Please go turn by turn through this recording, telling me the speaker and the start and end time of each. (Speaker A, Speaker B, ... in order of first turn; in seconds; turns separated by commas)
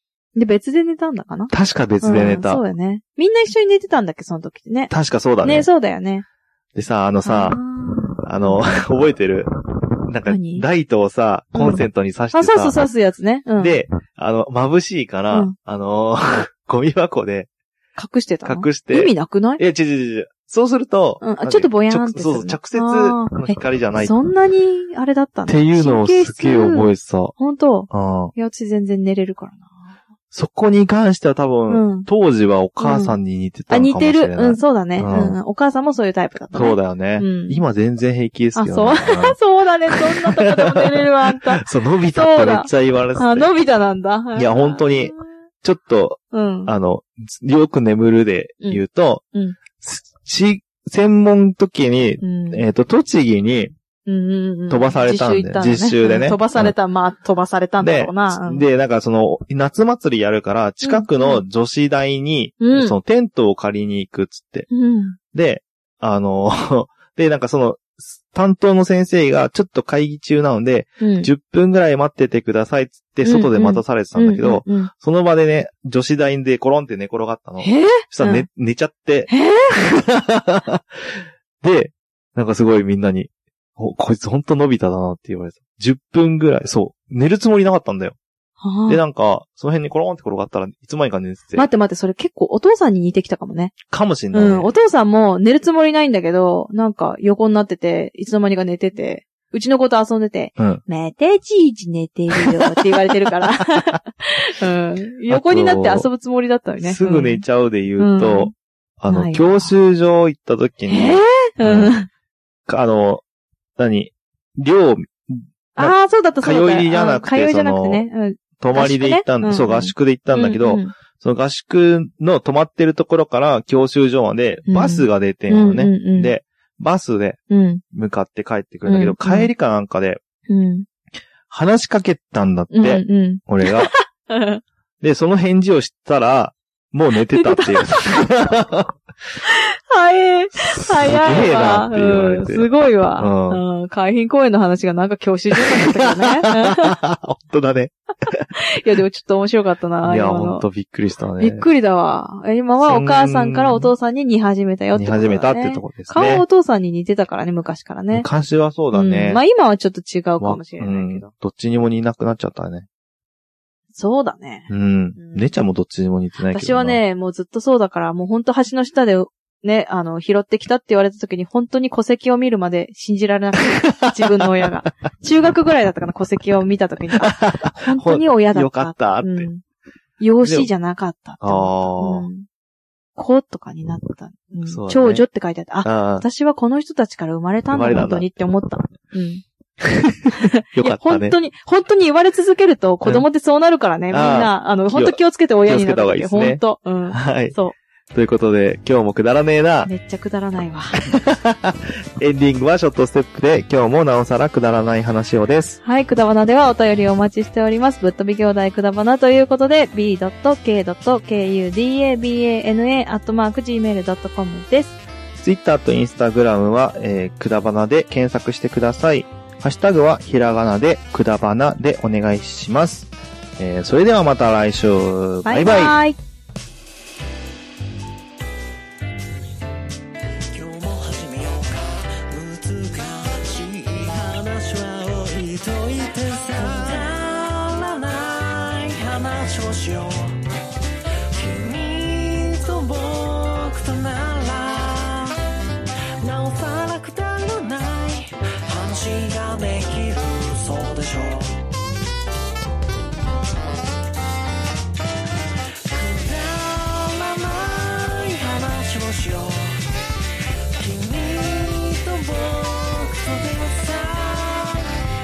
Speaker A: 0.3-6.2, Speaker B: 1.5-2.6, Speaker B: 4.9-5.7, Speaker B: 6.7-7.6, Speaker A: 7.2-8.8, Speaker B: 8.2-9.5, Speaker B: 10.1-12.8, Speaker A: 10.3-10.6, Speaker A: 11.5-13.8, Speaker B: 13.6-17.5, Speaker A: 17.9-19.6, Speaker B: 18.4-24.1, Speaker A: 21.2-29.7, Speaker B: 25.5-27.3, Speaker B: 27.9-28.3, Speaker B: 30.3-35.4, Speaker A: 31.7-32.1, Speaker A: 32.8-33.1, Speaker A: 33.7-37.6, Speaker B: 36.5-39.4, Speaker A: 38.5-45.2, Speaker B: 39.9-43.5, Speaker B: 44.4-49.2, Speaker A: 46.3-46.7, Speaker B: 49.8-53.7, Speaker A: 52.2-52.6, Speaker A: 54.0-58.6, Speaker B: 54.7-56.7, Speaker B: 57.8-64.7, Speaker A: 60.8-61.4, Speaker A: 62.6-63.0, Speaker A: 64.7-65.2, Speaker B: 65.3-80.8, Speaker A: 71.0-71.3, Speaker A: 73.2-74.9, Speaker A: 77.6-78.5, Speaker A: 79.3-79.8, Speaker B: 81.6-88.1, Speaker A: 88.6-89.0, Speaker B: 88.9-91.7, Speaker A: 91.5-93.8, Speaker B: 93.9-94.7, Speaker A: 94.3-107.4, Speaker B: 102.3-103.8, Speaker B: 105.3-106.1, Speaker B: 106.8-111.9, Speaker A: 108.0-108.5, Speaker A: 109.1-109.7, Speaker A: 110.9-112.1, Speaker B: 112.7-113.2, Speaker B: 113.8-118.0, Speaker A: 115.8-120.9, Speaker B: 118.6-127.4, Speaker A: 124.7-126.3, Speaker A: 127.5-127.8, Speaker B: 127.9-130.2, Speaker A: 128.8-129.5, Speaker A: 130.5-130.8, Speaker B: 131.5-133.9, Speaker A: 132.7-134.6, Speaker B: 135.0-138.9, Speaker A: 137.3-138.5, Speaker A: 139.4-146.9, Speaker B: 141.0-142.7, Speaker B: 143.2-143.6, Speaker B: 145.7-148.4, Speaker A: 148.5-150.7, Speaker B: 150.0-151.7, Speaker A: 151.4-158.3, Speaker B: 152.8-153.9, Speaker B: 154.9-156.4, Speaker B: 158.1-159.4, Speaker A: 158.9-161.3, Speaker B: 160.4-162.8, Speaker A: 163.9-165.5, Speaker B: 164.7-167.0, Speaker A: 166.5-179.6, Speaker B: 177.2-179.5, Speaker A: 180.2-182.4, Speaker B: 180.4-180.7, Speaker B: 181.4-182.3, Speaker A: 183.2-189.4, Speaker B: 184.7-185.2, Speaker B: 185.8-186.2, Speaker B: 187.7-188.2, Speaker A: 190.3-197.8, Speaker B: 190.7-191.4, Speaker B: 194.1-197.6, Speaker B: 198.1-199.9, Speaker A: 199.8-200.9, Speaker B: 201.1-205.8, Speaker A: 205.8-215.0, Speaker B: 215.4-225.9, Speaker A: 225.4-226.2, Speaker C: 230.5-240.4, Speaker C: 241.3-245.4, Speaker C: 246.2-251.5, Speaker C: 255.9-259.9, Speaker C: 260.8-264.9